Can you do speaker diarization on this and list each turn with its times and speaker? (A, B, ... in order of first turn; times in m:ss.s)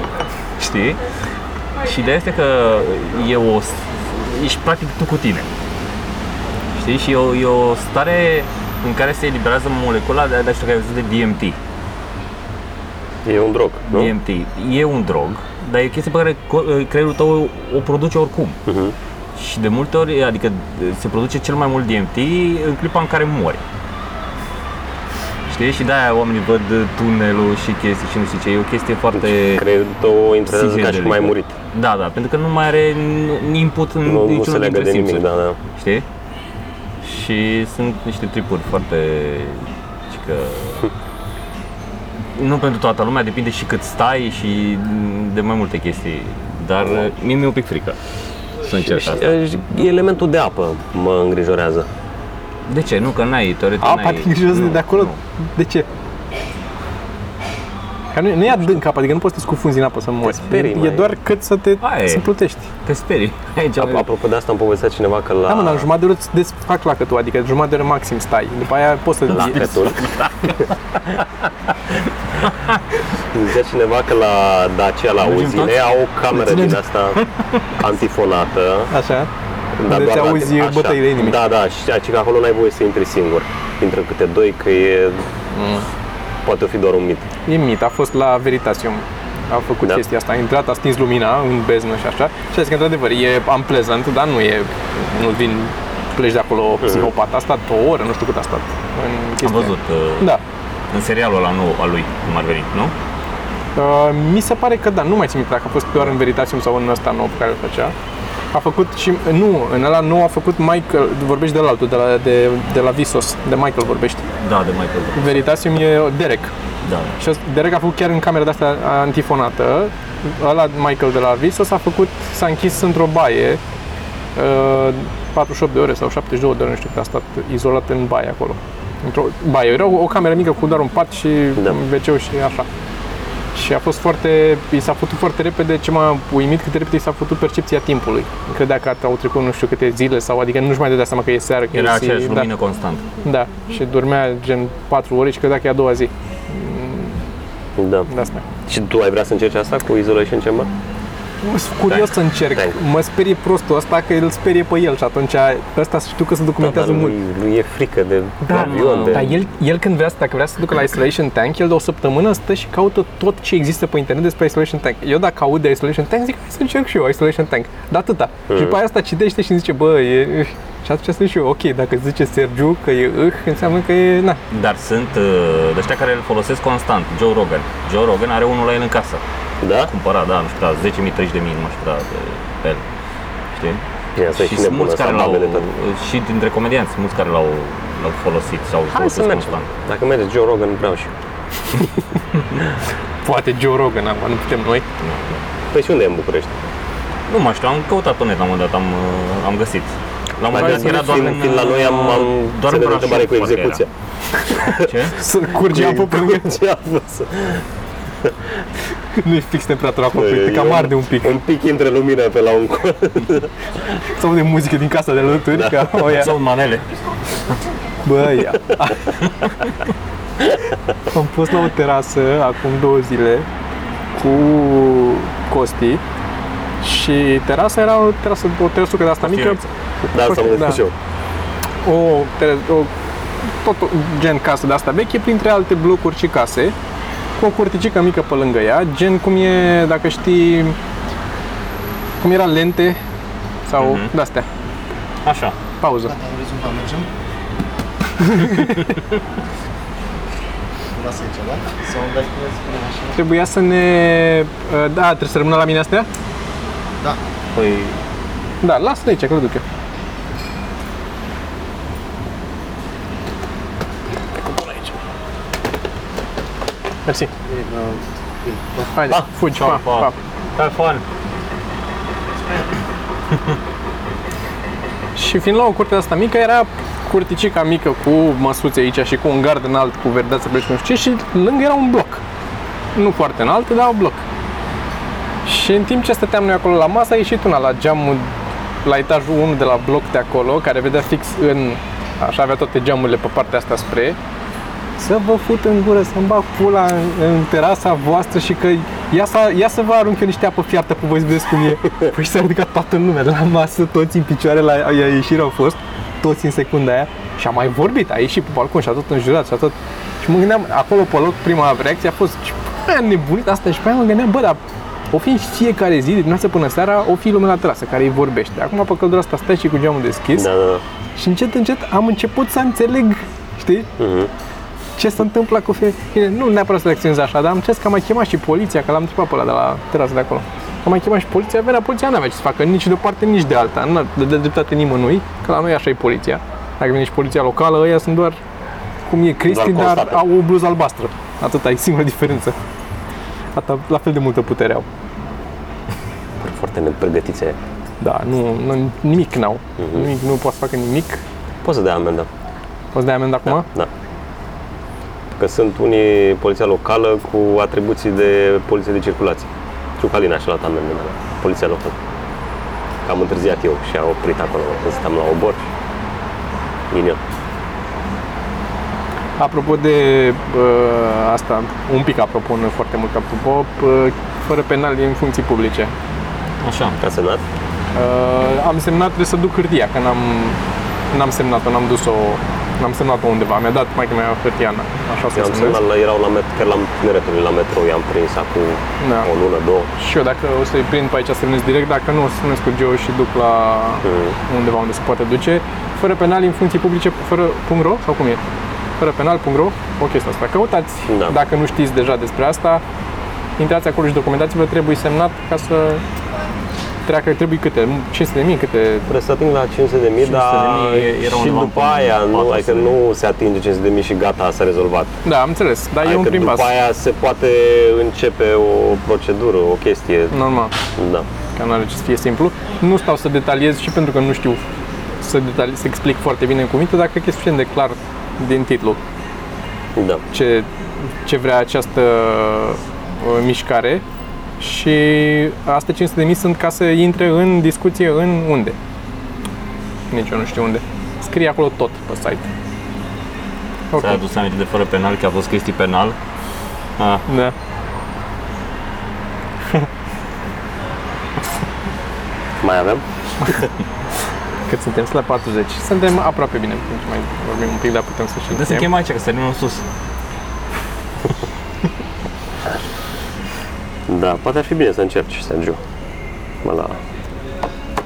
0:00.6-0:01.0 A
0:01.8-0:05.5 A
0:06.7-0:11.6 A
0:13.2-0:14.1 B
0:13.9-0:18.6 A
0:18.6-0:18.9 B
0:19.4-0:23.6 A
0:25.5-0:29.6 A
0:29.1-0:31.6 B
0:30.5-0:35.2 A
0:34.0-0:35.6 B
0:35.7-0:36.0 A
0:37.0-0:40.9 A
0:42.3-0:48.0 A
0:48.6-0:49.4 A
0:48.8-0:51.9 B
0:52.7-0:55.2 A
0:53.8-0:55.9 C
0:58.1-1:02.7 C
1:00.2-1:01.1 B
1:01.8-1:02.3 A
1:02.8-1:04.1 A
1:03.8-1:05.9 B
1:05.5-1:09.8 C
1:09.3-1:10.0 B
1:09.3-1:10.6 A
1:12.4-1:12.8 A
1:13.3-1:17.2 B
1:15.2-1:16.7 A
1:17.8-1:18.9 B
1:18.9-1:19.3 C
1:19.8-1:25.2 B
1:19.8-1:21.4 C
1:25.5-1:25.8 C
1:26.4-1:27.3 B
1:27.4-1:40.4 C
1:36.8-1:37.1 B
1:39.4-1:40.3 A
1:40.9-1:42.9 A
1:43.8-1:47.9 C
1:48.5-1:54.3 C
1:54.4-1:55.4 A
1:55.2-1:56.5 C
1:56.8-1:57.2 A
1:57.2-2:03.6 C
2:04.4-2:12.7 C
2:13.5-2:22.5 C
2:21.7-2:23.1 A
2:23.2-2:27.2 C
2:27.8-2:28.1 B
2:28.1-2:28.4 C
2:28.7-2:30.7 B
2:31.4-2:37.2 C
2:32.5-2:32.8 B
2:36.6-2:39.4 B
2:38.5-2:54.4 C
2:38.5-2:39.3 A
2:48.5-2:48.8 B
2:54.5-2:59.2 A
2:59.6-2:59.9 B
2:59.8-3:02.8 A
3:03.5-3:09.7 A
3:04.1-3:05.6 B
3:08.9-3:11.1 B
3:13.2-3:14.8 C
3:15.0-3:15.4 A
3:15.7-3:16.7 B
3:17.3-3:23.8 A
3:20.5-3:23.9 B
3:20.6-3:21.3 C
3:24.5-3:24.9 B
3:24.8-3:25.2 A
3:25.1-3:26.5 C
3:25.6-3:27.6 B
3:29.2-3:31.3 C
3:30.1-3:33.5 B
3:34.2-3:36.3 C
3:35.5-3:35.9 B
3:35.9-3:36.9 A
3:38.0-3:39.2 C
3:39.4-3:39.7 A
3:41.1-3:43.4 C
3:44.2-3:46.0 C
3:46.8-3:50.8 C
3:49.2-3:49.6 A
3:50.1-3:50.9 B
3:51.8-3:52.9 C
3:53.5-3:56.7 C
3:57.4-4:00.8 C
4:02.2-4:03.0 C
4:03.7-4:04.4 C
4:03.8-4:04.1 A
4:05.2-4:05.6 A
4:05.8-4:06.1 C
4:06.0-4:07.1 D
4:08.2-4:08.7 C
4:08.6-4:09.0 A
4:10.9-4:13.2 D
4:13.2-4:16.1 C
4:17.5-4:18.0 A
4:18.6-4:19.6 C
4:24.6-4:24.8 C
4:27.0-4:27.3 C
4:27.4-4:28.9 D
4:28.9-4:30.1 C
4:29.1-4:31.0 A
4:35.1-4:42.2 C
4:43.0-4:44.2 C
4:45.4-4:48.3 C
4:48.8-4:54.2 C
4:55.0-5:14.6 C
5:15.1-5:20.5 C
5:20.3-5:20.8 B
5:21.2-5:23.9 C
5:24.0-5:24.3 B
5:25.0-5:38.4 C
5:39.1-5:42.5 C
5:39.5-5:40.2 B
5:43.5-5:44.8 C
5:46.4-5:47.6 B
5:48.0-5:51.2 C
5:49.8-5:50.1 B
5:51.6-5:52.3 B
5:52.9-5:53.6 C
5:53.4-5:53.9 B
5:55.4-6:02.0 B
6:03.0-6:05.6 B
6:06.9-6:07.2 B
6:09.4-6:15.9 C
6:16.6-6:17.0 A
6:17.0-6:17.4 B
6:17.9-6:20.6 C
6:21.1-6:25.8 C
6:25.3-6:29.9 B
6:29.0-6:29.3 C
6:30.0-6:38.4 C
6:34.0-6:34.4 B
6:39.0-6:42.8 C
6:41.1-6:41.4 B
6:43.6-6:46.0 C
6:47.0-6:49.1 C
6:49.1-6:55.1 B
6:50.2-6:53.0 A
6:55.2-6:56.7 C
6:56.0-7:00.3 B
7:00.3-7:00.7 C
7:01.0-7:01.3 B
7:01.6-7:04.6 C
7:05.2-7:09.0 C
7:10.0-7:10.2 B
7:10.3-7:10.7 C
7:11.2-7:14.0 C
7:14.6-7:18.8 C
7:20.1-7:22.5 C
7:23.9-7:24.2 C
7:23.9-7:26.2 A
7:27.0-7:27.2 A
7:27.3-7:27.5 C
7:32.6-7:33.7 B
7:34.7-7:38.9 C
7:38.5-7:39.8 A
7:44.1-7:45.8 B
7:46.6-7:47.0 B